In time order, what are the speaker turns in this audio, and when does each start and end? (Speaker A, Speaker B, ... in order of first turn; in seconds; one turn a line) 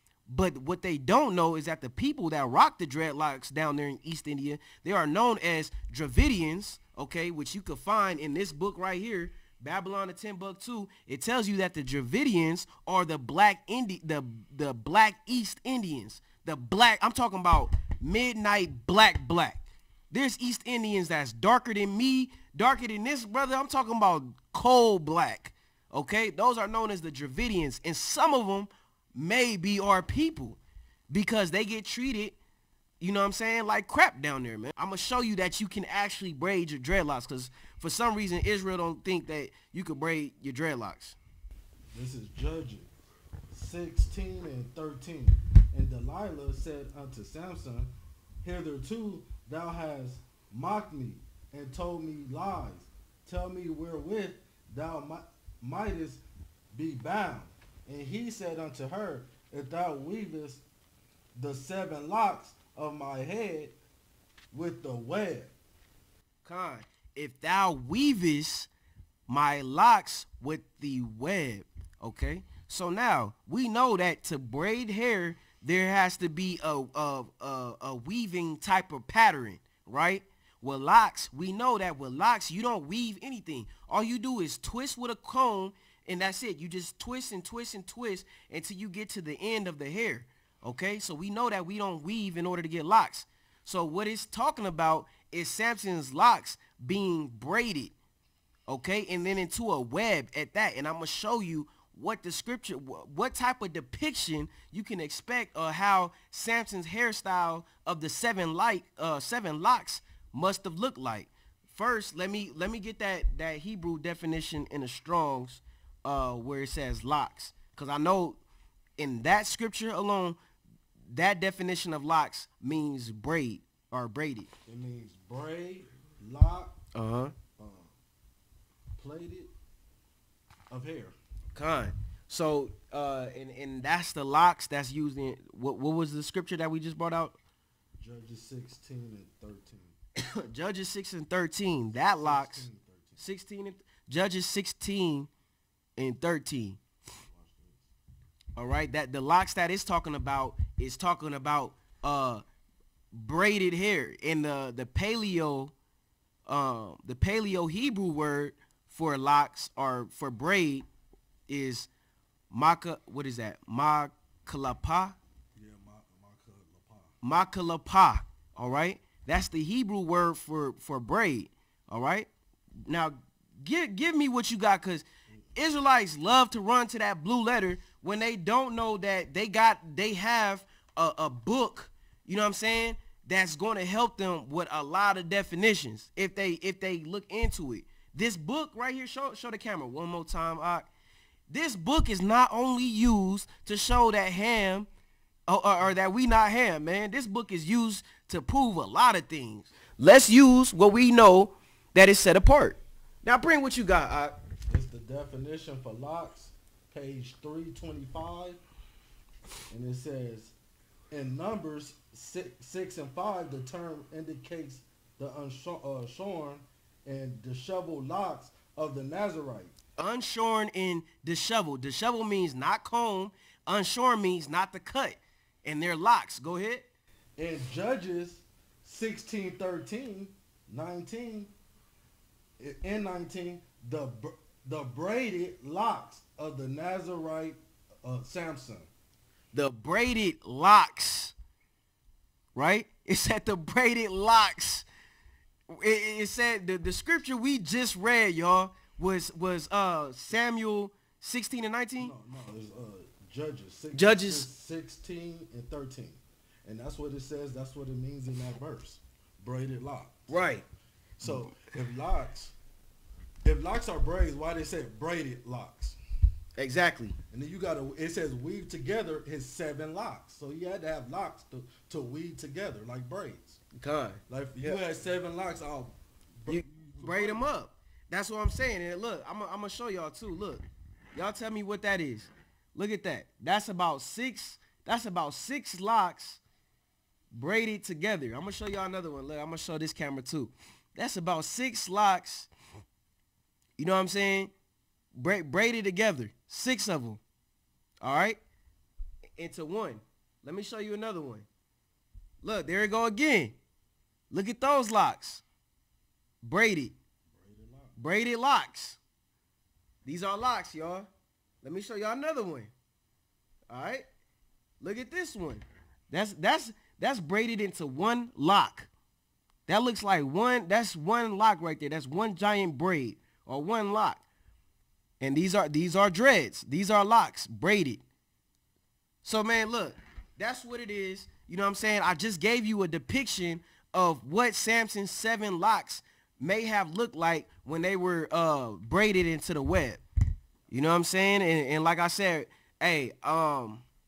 Speaker A: 0.3-32.4
Speaker A: 33.0-41.2
Speaker B: 41.9-42.9
Speaker B: 43.5-60.6
Speaker B: 61.4-63.8
Speaker B: 64.5-65.5
Speaker A: 66.4-68.7
Speaker A: 69.3-97.9
Speaker A: 98.7-118.4
Speaker A: 119.0-120.4
Speaker A: 121.1-124.5
Speaker B: 124.7-126.8
Speaker A: 126.9-127.3
Speaker B: 127.6-127.9
Speaker B: 128.9-129.5
Speaker B: 130.7-131.2
Speaker A: 131.5-137.4
Speaker B: 138.0-139.9
Speaker A: 140.2-142.7
Speaker B: 141.9-143.2
Speaker A: 143.2-145.3
Speaker A: 146.0-146.8
Speaker B: 147.3-147.9
Speaker A: 148.6-152.4
Speaker A: 153.1-155.7
Speaker A: 156.5-160.8
Speaker A: 161.5-161.9
Speaker A: 162.5-165.2
Speaker B: 165.6-167.1
Speaker A: 167.2-172.3
Speaker A: 172.9-190.9
Speaker A: 191.5-194.9
Speaker A: 195.5-204.3
Speaker B: 204.7-208.6
Speaker B: 209.7-210.5
Speaker B: 211.1-219.7
Speaker A: 220.0-226.9
Speaker B: 227.4-231.5
Speaker B: 232.6-238.9
Speaker A: 239.5-241.3
Speaker A: 242.5-244.8
Speaker A: 245.7-252.1
Speaker B: 252.0-260.4
Speaker A: 253.9-254.4
Speaker A: 260.3-260.6
Speaker B: 261.2-262.5
Speaker A: 261.2-261.6
Speaker B: 263.4-266.0
Speaker A: 266.6-267.2
Speaker B: 267.3-273.6
Speaker A: 273.7-274.8
Speaker B: 274.3-277.4
Speaker A: 276.5-280.6
Speaker A: 281.1-286.4
Speaker A: 287.3-292.5
Speaker A: 293.8-294.5
Speaker A: 295.1-297.2
Speaker A: 298.0-298.4
Speaker A: 299.4-301.5
Speaker A: 302.4-303.6
Speaker A: 304.3-305.4
Speaker A: 306.4-306.9
Speaker B: 307.3-307.9
Speaker A: 308.0-309.0
Speaker A: 310.1-311.1
Speaker A: 311.6-312.7
Speaker A: 313.7-314.1
Speaker A: 314.8-318.9
Speaker A: 319.7-324.2
Speaker A: 325.2-328.0
Speaker A: 329.2-340.0
Speaker A: 340.7-343.8